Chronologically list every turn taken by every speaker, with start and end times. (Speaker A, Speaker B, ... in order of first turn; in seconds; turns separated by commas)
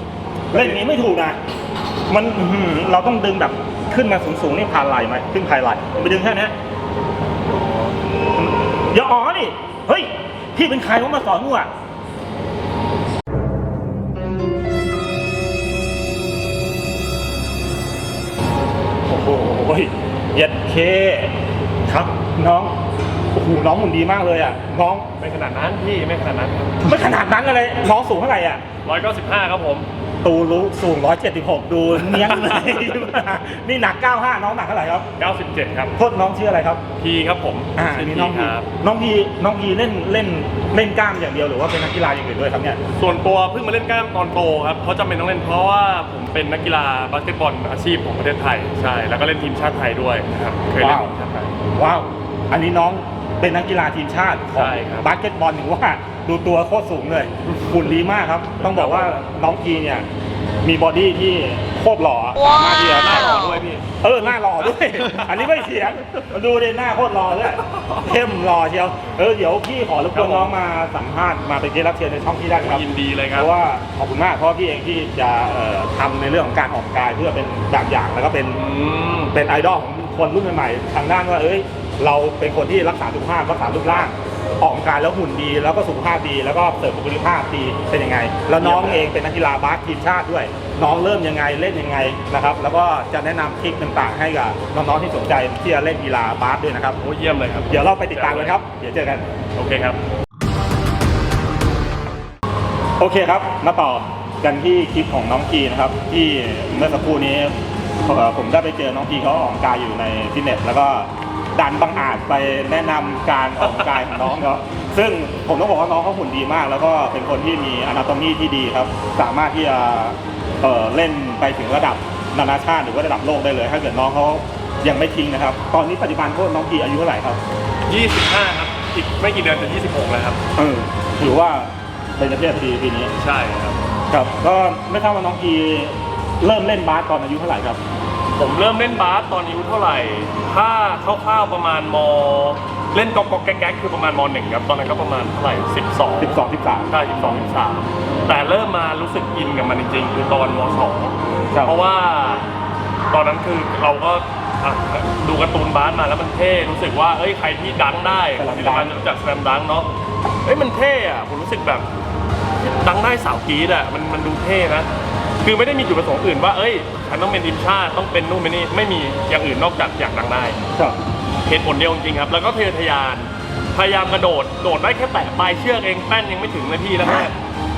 Speaker A: 0.5-1.4, Speaker A: 2.1-6.5, Speaker A: 8.3-11.7, Speaker A: 19.1-21.3, Speaker A: 21.9-22.7, Speaker A: 23.3-25.1, Speaker B: 25.2-26.9, Speaker A: 26.8-28.6, Speaker B: 28.9-29.9, Speaker A: 30.2-35.1, Speaker B: 32.0-33.1, Speaker B: 35.2-36.0, Speaker A: 36.0-36.8, Speaker B: 37.0-38.7, Speaker A: 37.8-42.8, Speaker B: 42.9-51.6, Speaker A: 50.8-51.1, Speaker A: 51.7-60.1, Speaker B: 54.5-55.1, Speaker B: 58.6-59.2, Speaker A: 60.6-78.6, Speaker B: 62.9-65.6, Speaker B: 67.7-68.1, Speaker B: 70.1-70.5, Speaker B: 72.6-73.5, Speaker B: 78.5-79.4, Speaker A: 79.3-97.0, Speaker B: 88.6-89.1, Speaker B: 97.0-98.6, Speaker A: 97.7-99.3, Speaker B: 99.6-100.0, Speaker A: 103.0-127.4, Speaker B: 113.6-114.3, Speaker B: 127.9-130.4, Speaker A: 130.6-133.1, Speaker B: 133.2-133.8, Speaker A: 134.1-137.8, Speaker B: 138.4-152.5, Speaker A: 146.2-147.5, Speaker A: 151.5-151.8, Speaker B: 153.1-159.9, Speaker A: 158.3-159.0, Speaker B: 160.4-161.9, Speaker B: 162.6-164.9, Speaker B: 165.4-170.6, Speaker B: 171.4-177.3, Speaker A: 177.0-177.3